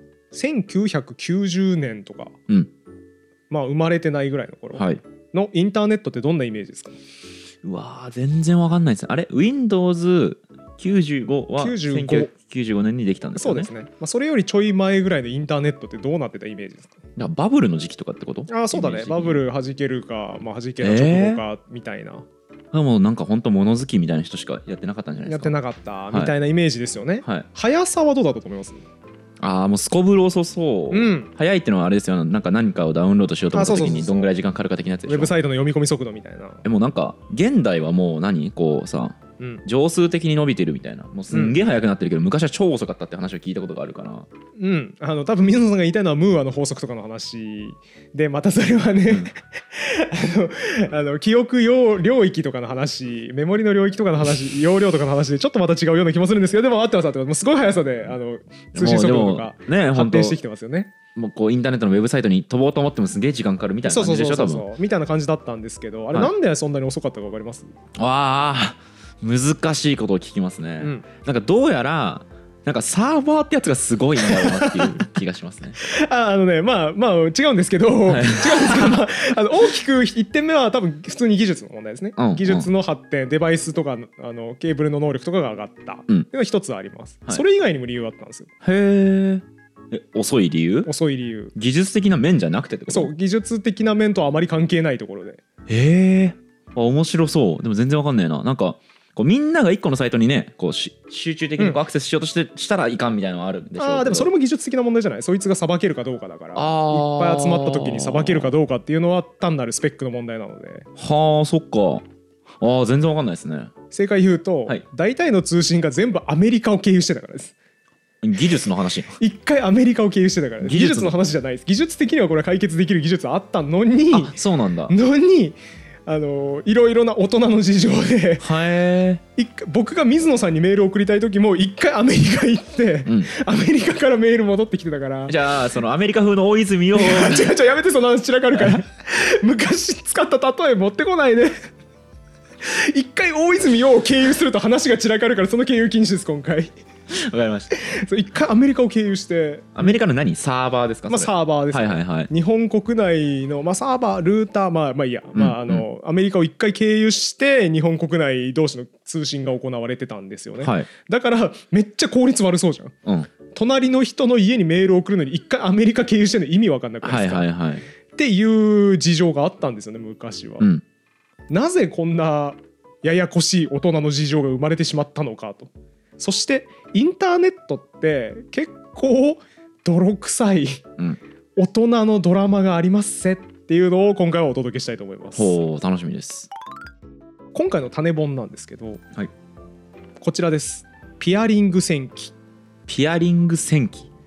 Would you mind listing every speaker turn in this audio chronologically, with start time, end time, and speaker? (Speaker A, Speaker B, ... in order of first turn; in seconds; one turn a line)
Speaker A: 0.3-2.4
Speaker A: 3.5-7.0
Speaker B: 4.7-5.0
Speaker B: 7.6-13.7
Speaker A: 11.6-12.3
Speaker A: 13.4-16.9
Speaker B: 17.2-19.4
Speaker A: 18.5-22.3
Speaker B: 20.8-21.4
Speaker B: 22.7-25.5
Speaker A: 25.2-28.8
Speaker B: 29.4-35.3
Speaker A: 30.9-31.3
Speaker A: 33.5-34.3
Speaker A: 35.1-36.6
Speaker B: 36.6-44.3
Speaker A: 41.3-41.6
Speaker A: 44.6-60.9
Speaker B: 58.7-60.4
Speaker B: 61.1-64.6
Speaker A: 63.9-67.7
Speaker B: 68.0-75.8
Speaker A: 70.8-71.0
Speaker A: 74.2-75.0
Speaker A: 75.8-88.5
Speaker B: 78.1-79.0
Speaker B: 82.2-82.7
Speaker B: 88.6-90.9
Speaker A: 90.9-91.5
Speaker B: 91.5-93.1
Speaker A: 92.9-95.4
Speaker B: 95.7-104.3
Speaker A: 103.8-110.9
Speaker B: 106.5-108.5
Speaker B: 111.0-112.1
Speaker B: 112.6-113.7
Speaker A: 113.9-117.5
Speaker B: 118.2-119.2
Speaker A: 119.2-124.4
Speaker B: 120.6-121.1
Speaker B: 124.1-124.9
Speaker A: 124.9-128.6
Speaker B: 128.4-129.2
Speaker A: 129.4-135.4
Speaker B: 135.3-137.5
Speaker A: 136.9-141.6
Speaker A: 142.6-146.8
Speaker B: 147.1-147.8
Speaker A: 147.7-150.0
Speaker B: 149.8-152.3
Speaker A: 151.1-162.9
Speaker B: 155.3-155.8
Speaker B: 160.6-160.9
Speaker B: 163.1-163.3
Speaker A: 163.5-167.5
Speaker B: 167.0-167.8
Speaker A: 168.2-170.7
Speaker A: 171.5-180.8
Speaker A: 181.6-185.6
Speaker B: 185.4-186.5
Speaker A: 187.5-189.0
Speaker A: 190.2-192.3
Speaker B: 192.9-194.1